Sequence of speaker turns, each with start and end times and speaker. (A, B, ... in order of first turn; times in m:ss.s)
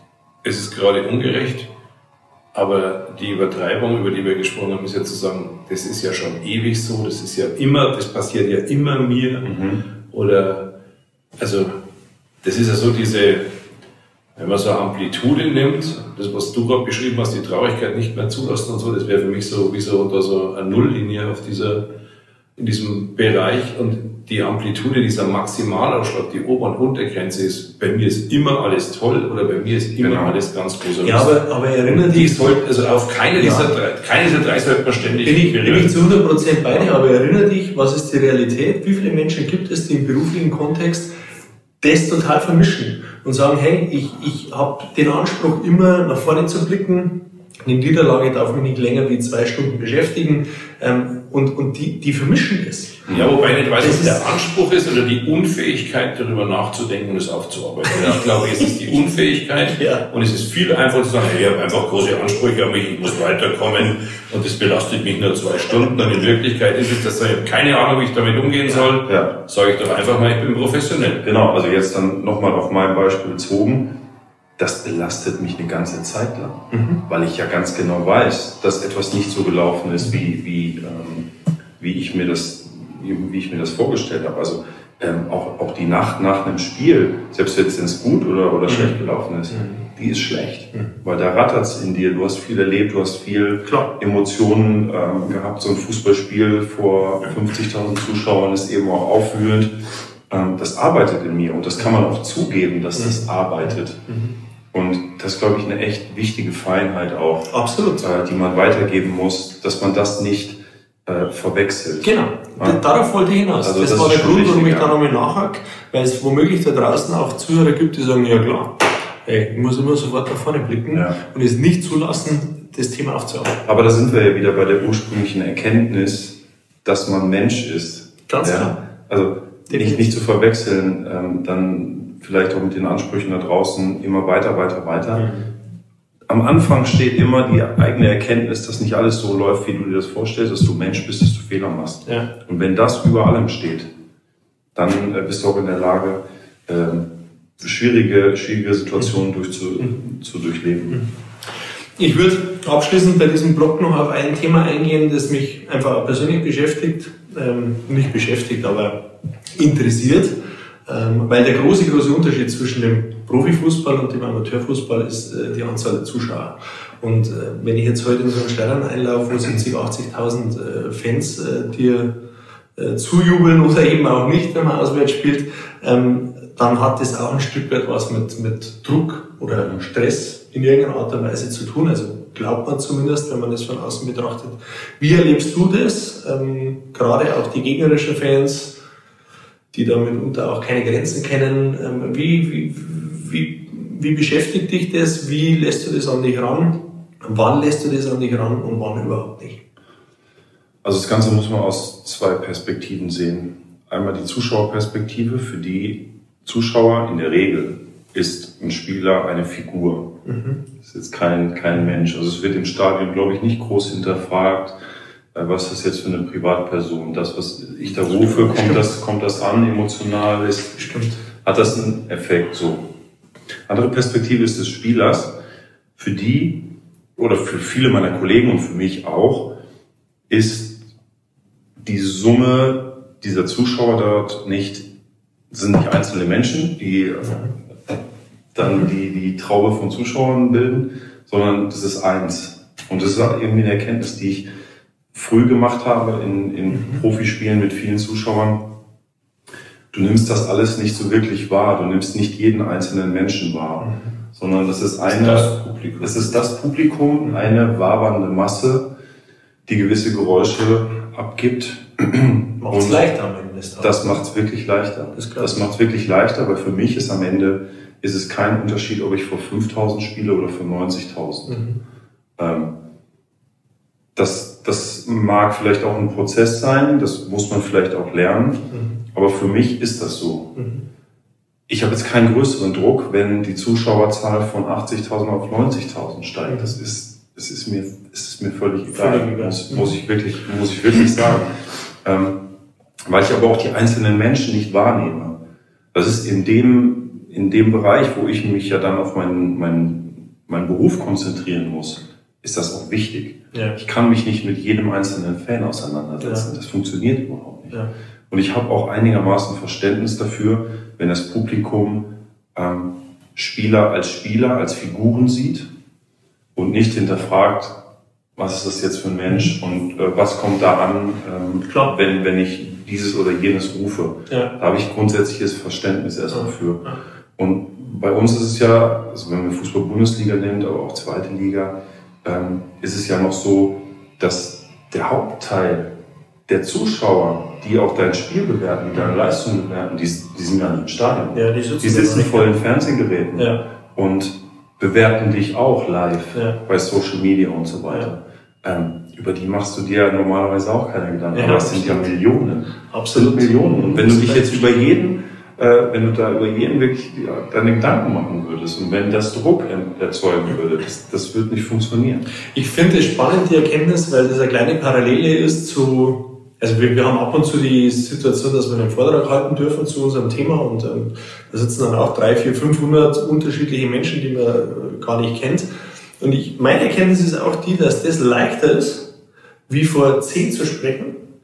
0:00.4-0:01.7 A
0:02.5-0:09.6 A
0:09.4-0:09.8 B
0:10.1-0:10.7 A
0:11.4-0:11.8 A
0:12.4-0:13.5 A
0:14.4-0:21.9 A
0:22.6-0:35.9 A
0:30.0-0:30.4 B
0:31.0-0:32.6 C
0:33.4-0:33.7 C
0:35.2-0:41.1 C
0:41.8-0:54.4 C
0:53.1-0:53.3 B
0:53.1-1:11.2 A
0:58.0-0:58.3 C
0:59.8-1:00.0 C
1:09.1-1:09.3 B
1:11.2-1:14.0 B
1:14.6-1:21.3 B
1:16.7-1:17.0 C
1:21.8-1:44.0 B
1:28.7-1:28.9 C
1:29.5-1:29.8 C
1:33.6-1:33.9 C
1:43.0-1:43.2 C
1:44.1-1:44.3 C
1:44.7-1:52.8 B
1:47.5-1:48.0 C
1:52.0-2:03.6 C
1:53.6-1:54.9 B
2:03.6-2:15.4 B
2:08.3-2:08.8 C
2:09.7-2:10.0 C
2:15.2-2:15.5 C
2:16.3-2:23.9 B
2:24.8-2:31.0 B
2:32.0-2:52.2 C
2:52.8-3:08.8 C
3:09.7-3:19.6 C
3:20.8-3:30.1 B
3:30.2-3:30.6 C
3:30.8-3:34.8 B
3:35.3-3:42.9 B
3:38.3-3:38.8 C
3:40.8-3:41.2 C
3:43.7-3:45.4 B
3:46.0-3:49.5 B
3:50.3-3:50.8 B
3:51.8-3:54.9 B
3:55.5-3:57.5 B
3:58.5-4:04.4 B
4:05.1-4:08.7 B
4:09.9-4:18.9 B
4:15.0-4:16.4 A
4:19.7-4:23.0 B
4:22.6-4:24.2 C
4:23.8-4:31.6 B
4:25.2-4:25.6 C
4:31.5-4:31.8 C
4:32.4-4:32.8 B
4:34.2-4:40.6 B
4:38.7-4:39.0 C
4:40.6-4:40.8 C
4:41.7-4:52.4 B
4:46.5-4:46.7 C
4:48.9-4:49.9 C
4:53.1-4:55.4 B
4:55.9-5:07.8 B
5:06.2-5:06.5 C
5:08.3-5:15.7 B
5:16.6-5:17.8 B
5:18.4-5:35.9 B
5:36.5-6:02.3 B
5:41.3-5:42.6 C
5:43.4-5:43.6 C
5:46.3-5:46.6 C
5:51.3-5:52.1 C
5:52.9-5:54.8 C
6:02.5-6:15.7 C
6:16.2-6:19.1 C
6:19.7-6:21.2 C